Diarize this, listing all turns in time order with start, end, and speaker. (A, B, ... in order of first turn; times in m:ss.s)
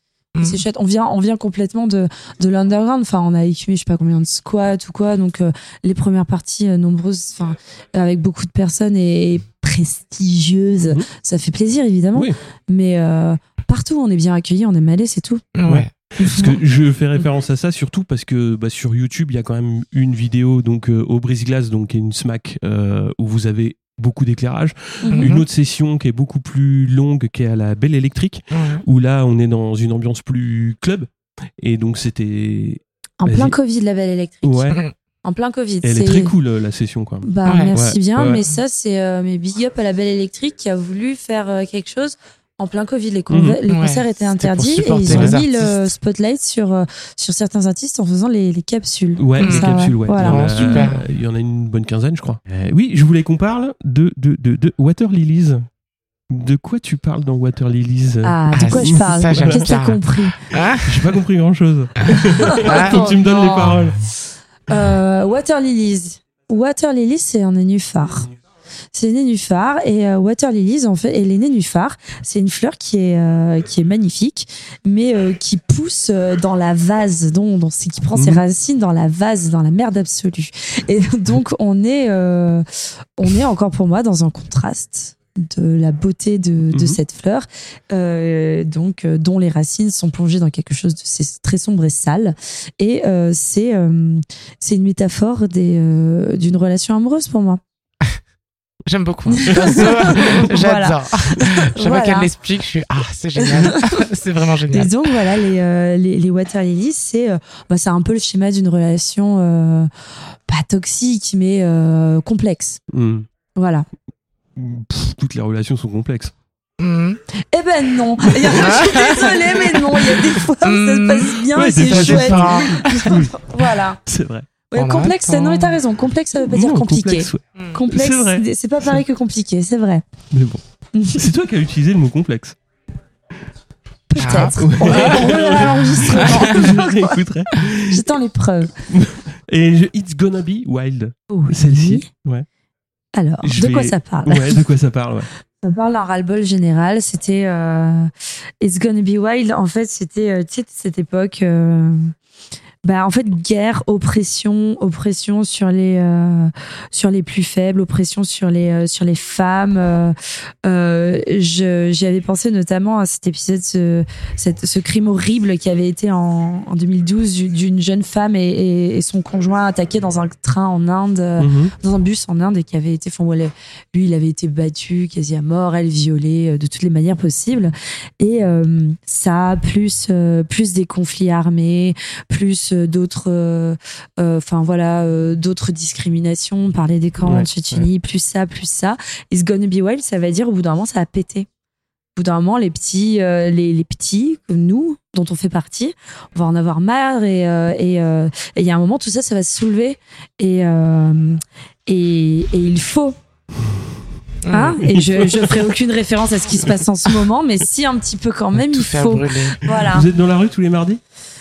0:00.3-0:00.6 A
0:00.4-0:15.4 B
0:15.5-0:15.9 A
0:15.6-0:33.5 C
0:16.2-0:16.6 B
0:25.0-0:25.3 B
0:25.1-0:25.4 A
0:28.5-0:28.8 A
0:33.2-0:36.3 B
0:34.4-0:34.8 C
0:35.8-0:38.4 C
0:37.2-0:50.9 B
0:37.4-0:37.7 A
0:43.3-0:43.6 C
0:43.7-0:45.7 A
0:45.1-0:45.4 C
0:49.2-0:55.7 C
0:49.4-0:51.0 A
0:56.3-0:59.7 C
0:58.2-1:00.4 B
0:58.5-1:01.1 A
1:00.8-1:04.0 C
1:02.5-1:03.8 B
1:02.6-1:03.2 A
1:04.7-1:08.3 B
1:08.9-1:22.6 B
1:18.1-1:18.4 C
1:23.2-1:37.6 B
1:26.7-1:27.0 C
1:38.8-1:45.1 A
1:39.3-1:42.3 B
1:43.5-1:43.8 B
1:44.7-1:49.9 B
1:50.5-1:52.8 B
1:52.9-1:53.3 C
1:53.6-1:53.9 B
1:54.6-1:56.3 C
1:56.8-1:57.2 A
1:57.5-2:04.0 B
1:58.2-1:58.5 C
1:58.5-2:03.2 A
2:01.5-2:04.5 C
2:04.7-2:10.0 B
2:04.7-2:05.8 A
2:06.4-2:08.4 C
2:10.3-2:10.6 C
2:10.9-2:11.2 B
2:11.1-2:12.6 C
2:14.1-2:17.2 B
2:14.2-2:15.5 A
2:14.6-2:18.1 C
2:17.8-2:18.8 B
2:18.8-2:22.4 C
2:21.3-2:22.1 B
2:23.1-2:24.6 B
2:23.4-2:25.3 C
2:25.6-2:32.1 B
2:32.8-3:11.5 B
2:51.4-2:51.7 C
3:07.2-3:07.9 C
3:12.2-3:23.2 B
3:23.6-3:23.9 C
3:24.4-3:24.8 A
3:24.5-3:30.1 B
3:24.8-3:25.6 C
3:28.6-3:29.7 A
3:29.8-3:31.0 C